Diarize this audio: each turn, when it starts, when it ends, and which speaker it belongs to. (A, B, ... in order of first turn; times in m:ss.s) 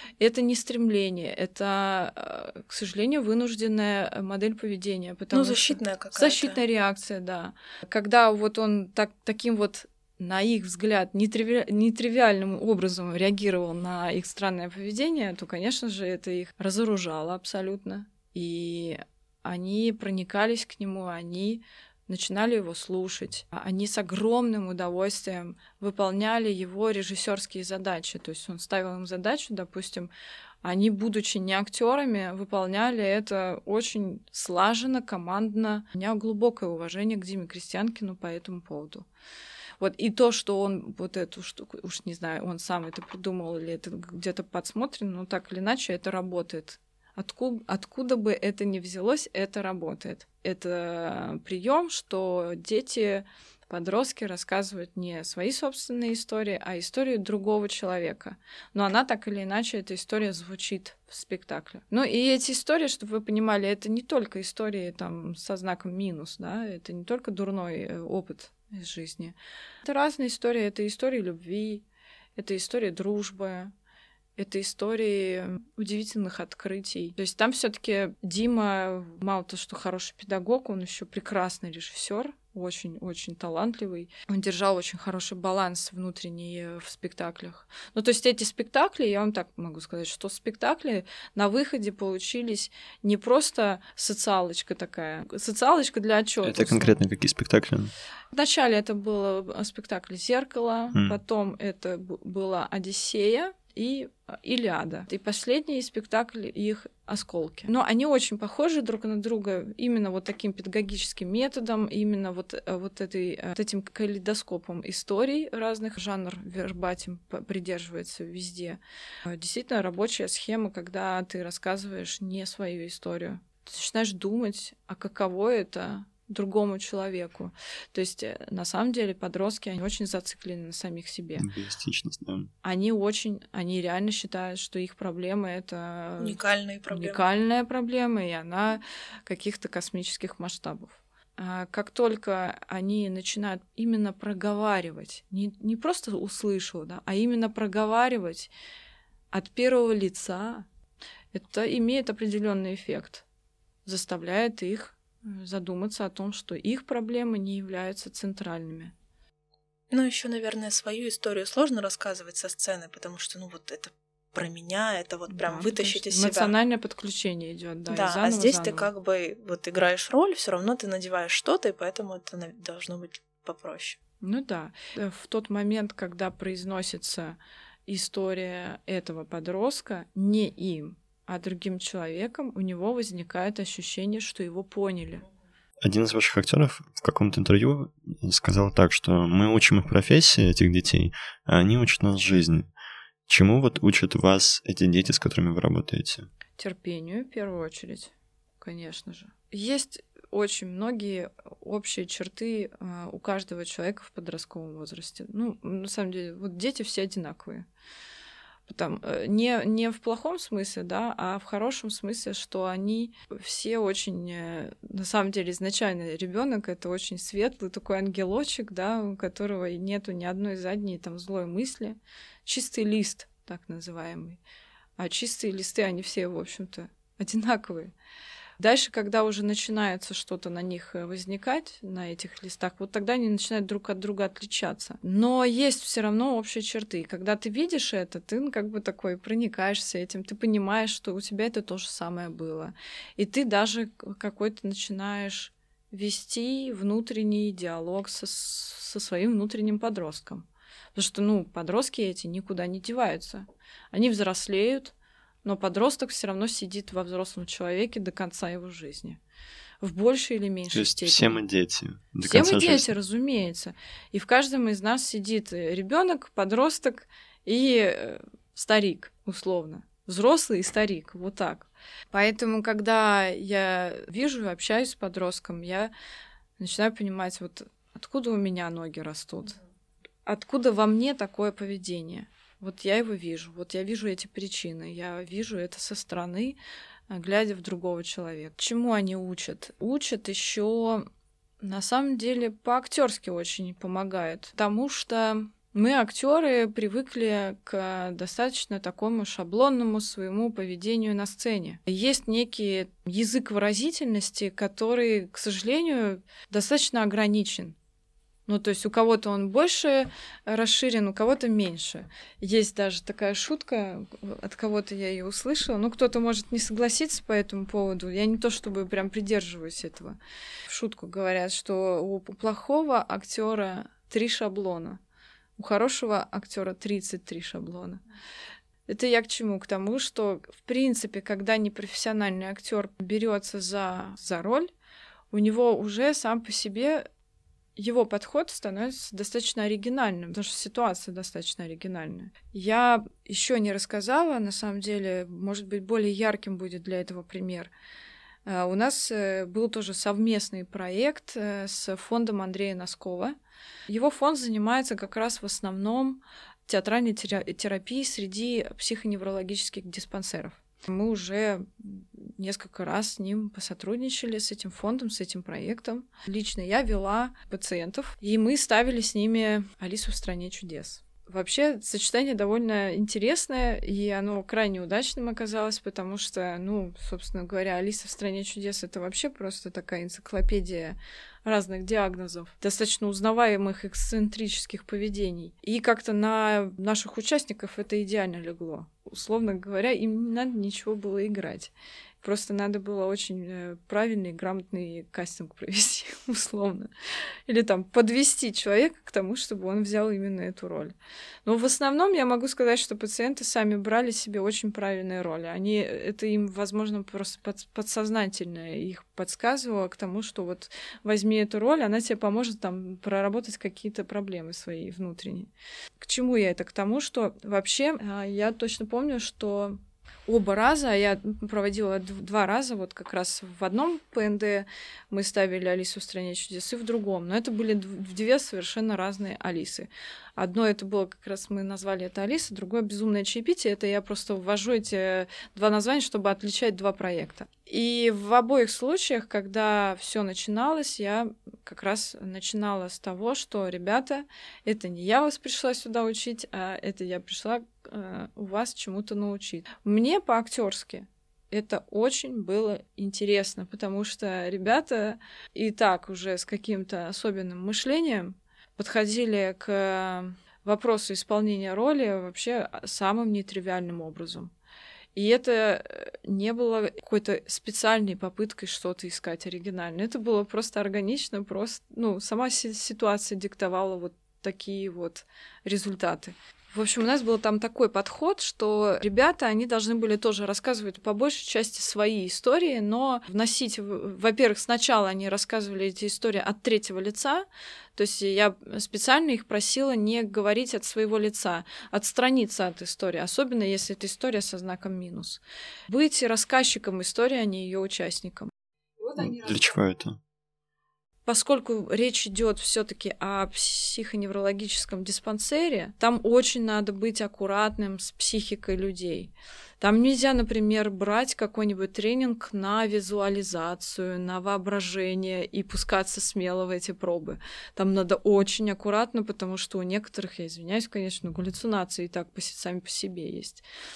0:00.2-0:30.1 A
0:05.3-0:06.6 B
0:30.6-0:39.1 A
0:39.8-1:11.8 A
1:12.4-1:13.7 A
1:14.4-1:37.0 A
1:36.4-1:37.9 C
1:38.3-2:11.5 A
2:11.4-2:12.5 C
2:12.6-2:28.5 A
2:16.2-2:17.2 B
2:29.3-2:30.6 A
2:31.3-2:33.2 A
2:33.8-2:38.9 A
2:39.9-2:46.5 B
2:45.3-2:48.9 A
2:47.9-2:54.0 B
2:54.2-3:05.2 A
3:05.8-3:12.7 C
3:13.3-3:16.3 C
3:16.6-3:27.6 A
3:28.7-3:44.4 A
3:45.0-3:47.9 A
3:48.6-4:14.9 A
4:15.4-4:19.2 A
4:19.8-4:21.4 A
4:20.7-4:22.9 C
4:22.2-4:35.9 A
4:36.6-4:39.6 A
4:40.2-4:46.6 A
4:47.1-4:51.1 A
4:51.6-5:07.8 A
5:08.5-5:25.0 A
5:25.6-5:28.0 A
5:28.9-5:34.7 A
5:35.3-5:37.1 A
5:37.8-5:47.7 A
5:48.4-5:53.4 A
5:53.9-6:36.9 A
6:37.5-6:40.9 A
6:41.4-6:55.5 A
6:56.0-7:44.5 A
7:45.1-8:18.5 A
8:19.2-8:20.2 C
8:21.2-8:43.6 A